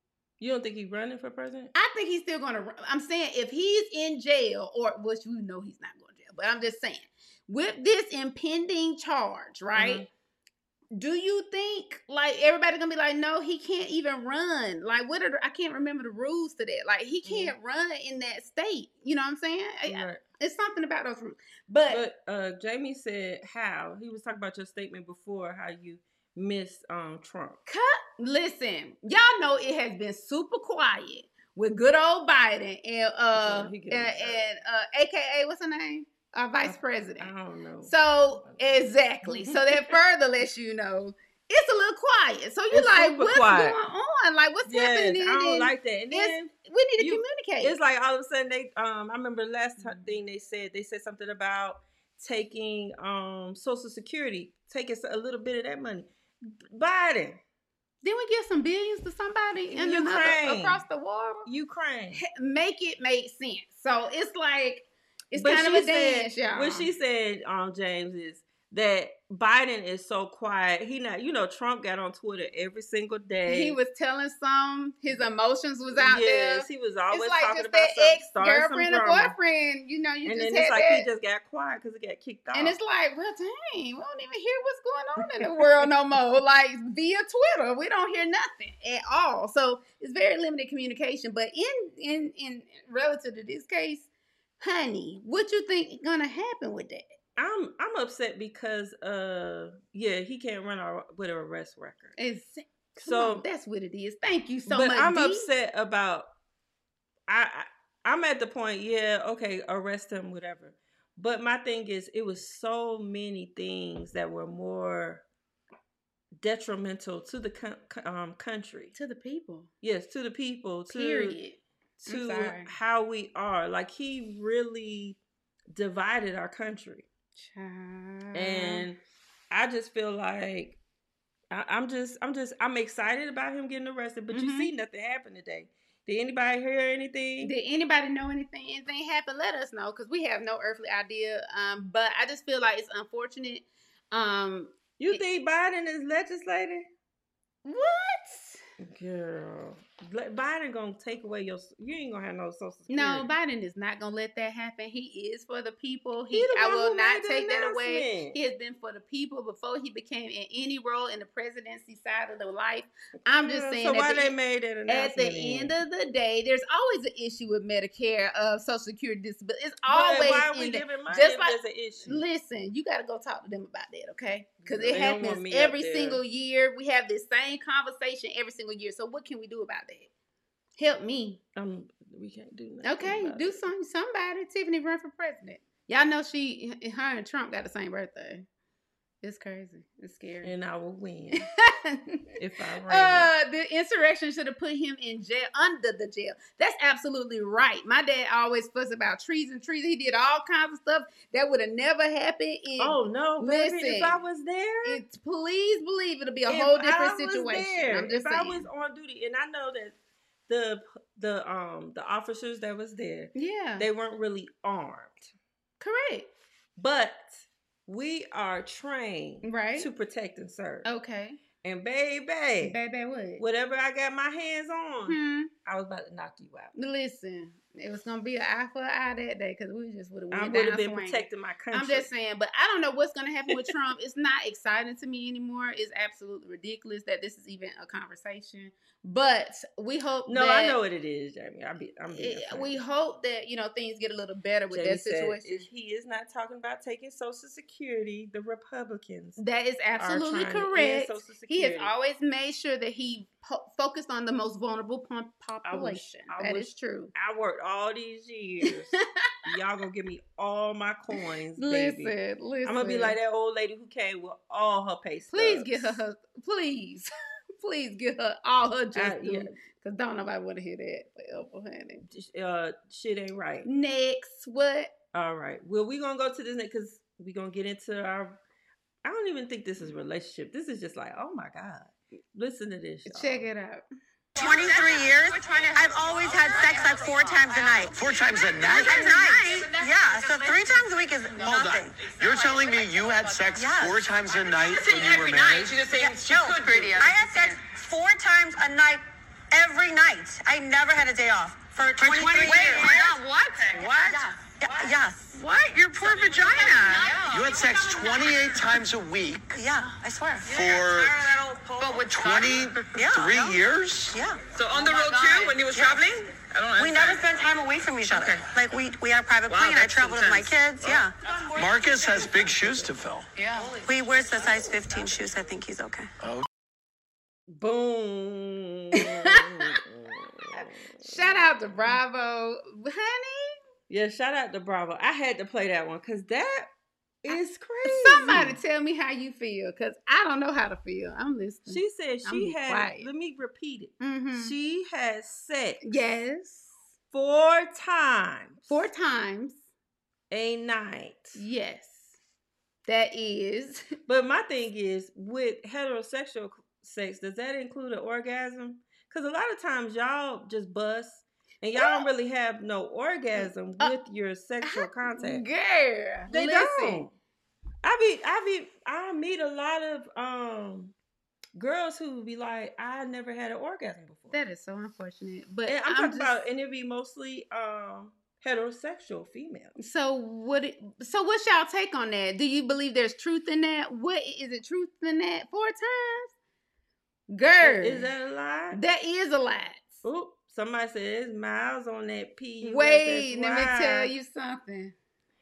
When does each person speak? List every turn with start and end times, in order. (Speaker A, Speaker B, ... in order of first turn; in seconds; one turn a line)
Speaker A: 0.4-1.7
Speaker B: 1.8-10.1
Speaker A: 9.8-10.1
Speaker B: 10.9-22.1
Speaker A: 17.2-17.5
Speaker A: 19.9-20.2
Speaker A: 21.9-27.6
Speaker B: 27.7-37.3
Speaker A: 33.4-34.5
Speaker A: 36.6-40.0
Speaker B: 37.9-47.8
Speaker A: 42.7-43.8
Speaker A: 44.7-57.4
Speaker B: 49.8-50.0
Speaker B: 58.0-61.5
Speaker A: 59.7-60.8
Speaker A: 61.5-62.2
Speaker B: 62.1-66.9
Speaker A: 65.3-73.8
Speaker B: 73.5-81.1
Speaker A: 75.9-79.4
Speaker A: 80.2-82.8
Speaker B: 82.5-94.1
Speaker A: 85.4-85.9
Speaker B: 94.6-97.1
Speaker A: 97.4-102.2
Speaker B: 102.2-105.5
Speaker A: 103.0-103.5
Speaker A: 104.7-106.3
Speaker A: 107.3-115.2
Speaker A: 116.4-119.0
Speaker B: 119.0-119.7
Speaker A: 119.8-121.4
Speaker B: 120.9-122.7
Speaker A: 122.0-125.2
Speaker A: 125.7-127.1
Speaker B: 127.4-128.9
Speaker A: 128.3-129.0
Speaker A: 129.5-130.8
Speaker A: 131.5-137.5
Speaker B: 134.3-134.7
Speaker B: 137.4-145.2
Speaker A: 145.0-146.9
Speaker B: 147.7-148.6
Speaker A: 148.8-153.3
Speaker B: 152.9-164.3
Speaker A: 156.3-158.4
Speaker A: 163.4-165.8
Speaker B: 164.9-180.1
Speaker A: 169.9-172.2
Speaker A: 174.6-176.2
Speaker B: 180.8-181.4
Speaker A: 181.6-183.7
Speaker B: 182.8-188.4
Speaker B: 189.2-190.5
Speaker A: 190.4-191.5
Speaker B: 191.7-192.3
Speaker A: 192.4-193.3
Speaker B: 192.9-204.2
Speaker A: 202.8-205.0
Speaker B: 204.8-208.7
Speaker A: 206.5-209.9
Speaker A: 210.5-215.3
Speaker B: 213.3-213.9
Speaker B: 215.8-216.3
Speaker A: 216.8-220.9
Speaker B: 219.4-219.9
Speaker B: 220.8-221.4
Speaker A: 221.6-222.8
Speaker B: 222.6-223.4
Speaker A: 223.4-226.8
Speaker B: 225.1-225.5
Speaker B: 226.8-240.8
Speaker A: 230.3-232.1
Speaker A: 240.3-242.8
Speaker B: 242.1-245.7
Speaker A: 244.7-249.4
Speaker B: 249.4-257.1
Speaker A: 250.0-251.9
Speaker A: 255.6-266.0
Speaker B: 258.6-259.3
Speaker B: 261.6-263.2
Speaker B: 265.3-272.1
Speaker A: 268.9-269.6
Speaker A: 272.1-273.7
Speaker B: 273.6-274.9
Speaker A: 275.1-278.4
Speaker A: 279.0-283.5
Speaker B: 283.1-283.8
Speaker C: 284.4-288.0
Speaker D: 287.9-289.0
Speaker C: 288.6-292.1
Speaker D: 291.4-295.9
Speaker C: 293.5-294.0
Speaker E: 294.8-297.1
Speaker C: 295.8-308.2
Speaker E: 302.1-303.1
Speaker E: 305.8-307.1
Speaker D: 307.2-309.4
Speaker C: 309.5-310.7
Speaker D: 310.5-311.2
Speaker C: 311.8-314.4
Speaker D: 312.0-314.2
Speaker E: 314.6-317.2
Speaker C: 315.5-316.1
Speaker C: 316.7-321.2
Speaker E: 319.5-320.9
Speaker D: 321.6-323.3
Speaker C: 323.7-326.1
Speaker A: 327.6-332.0
Speaker B: 329.0-329.7
Speaker B: 330.5-333.6
Speaker A: 333.9-336.7
Speaker A: 337.2-338.6
Speaker B: 337.3-343.1
Speaker A: 341.7-345.9
Speaker B: 344.0-344.5
Speaker B: 345.8-346.7
Speaker A: 347.1-348.9
Speaker B: 348.7-349.6
Speaker A: 350.3-351.4
Speaker B: 351.4-352.1
Speaker B: 352.9-353.9
Speaker A: 354.1-365.4
Speaker B: 361.8-362.1
Speaker B: 363.4-364.0
Speaker B: 364.6-367.1
Speaker A: 366.3-367.1
Speaker A: 367.8-370.9
Speaker A: 371.6-374.4
Speaker B: 374.3-376.3
Speaker A: 375.7-379.8
Speaker B: 379.8-386.3
Speaker B: 387.3-388.1
Speaker A: 387.6-388.8
Speaker B: 388.7-390.0
Speaker A: 390.0-394.1
Speaker B: 392.6-394.9